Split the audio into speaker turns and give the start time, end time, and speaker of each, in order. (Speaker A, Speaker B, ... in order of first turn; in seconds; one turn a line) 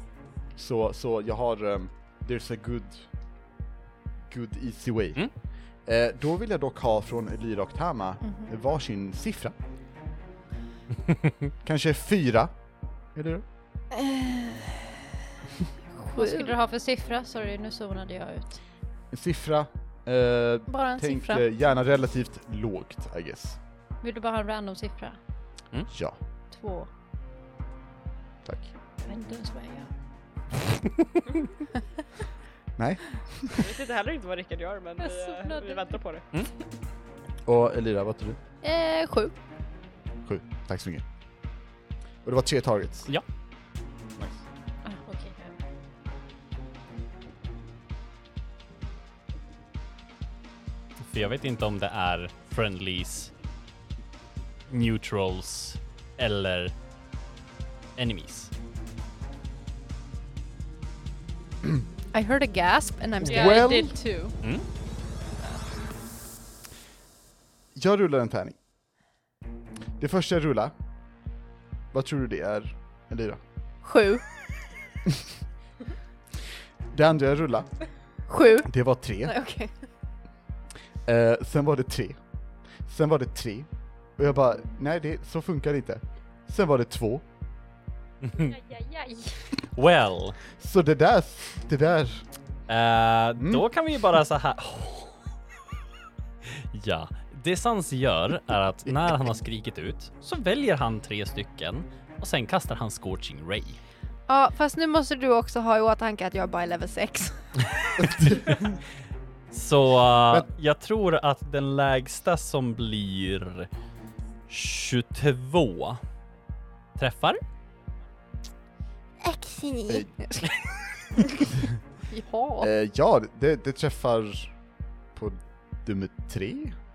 Speaker A: 0.6-3.1
Speaker A: 4.3-5.3
Speaker A: 5.8-9.5
Speaker B: 8.2-8.5
Speaker A: 11.6-12.5
Speaker A: 13.1-13.4
Speaker B: 13.9-14.9
Speaker B: 16.0-16.5
Speaker C: 16.1-18.6
Speaker A: 19.1-23.6
Speaker B: 20.7-21.4
Speaker C: 24.0-25.2
Speaker A: 25.9-26.2
Speaker C: 26.5-26.9
Speaker A: 28.4-28.7
Speaker C: 29.1-29.7
Speaker B: 29.2-29.7
Speaker A: 32.8-33.7
Speaker D: 33.6-36.2
Speaker C: 35.0-36.0
Speaker A: 37.5-38.4
Speaker B: 38.6-39.3
Speaker A: 40.2-41.0
Speaker A: 42.2-43.1
Speaker A: 44.2-44.4
Speaker C: 44.8-45.5
Speaker E: 51.0-53.3
Speaker E: 54.7-56.7
Speaker E: 58.0-58.5
Speaker B: 62.1-64.3
Speaker A: 63.2-64.0
Speaker C: 63.3-64.3
Speaker A: 67.7-68.6
Speaker A: 70.0-70.7
Speaker A: 71.9-73.4
Speaker B: 73.8-74.2
Speaker A: 76.9-77.8
Speaker B: 78.3-79.7
Speaker A: 78.7-79.3
Speaker A: 81.0-82.2
Speaker A: 82.8-87.2
Speaker E: 88.2-88.5
Speaker C: 88.4-89.5
Speaker E: 89.7-90.4
Speaker A: 90.5-92.2
Speaker E: 92.7-95.2
Speaker A: 93.4-93.6
Speaker E: 96.7-103.8
Speaker A: 98.9-99.2
Speaker B: 104.3-107.5
Speaker A: 108.0-108.8
Speaker E: 109.5-113.7
Speaker E: 114.5-116.0
Speaker E: 117.0-117.4
Speaker B: 119.2-120.5
Speaker A: 119.9-120.4
Speaker B: 122.1-122.7
Speaker A: 122.6-124.5
Speaker A: 125.1-126.8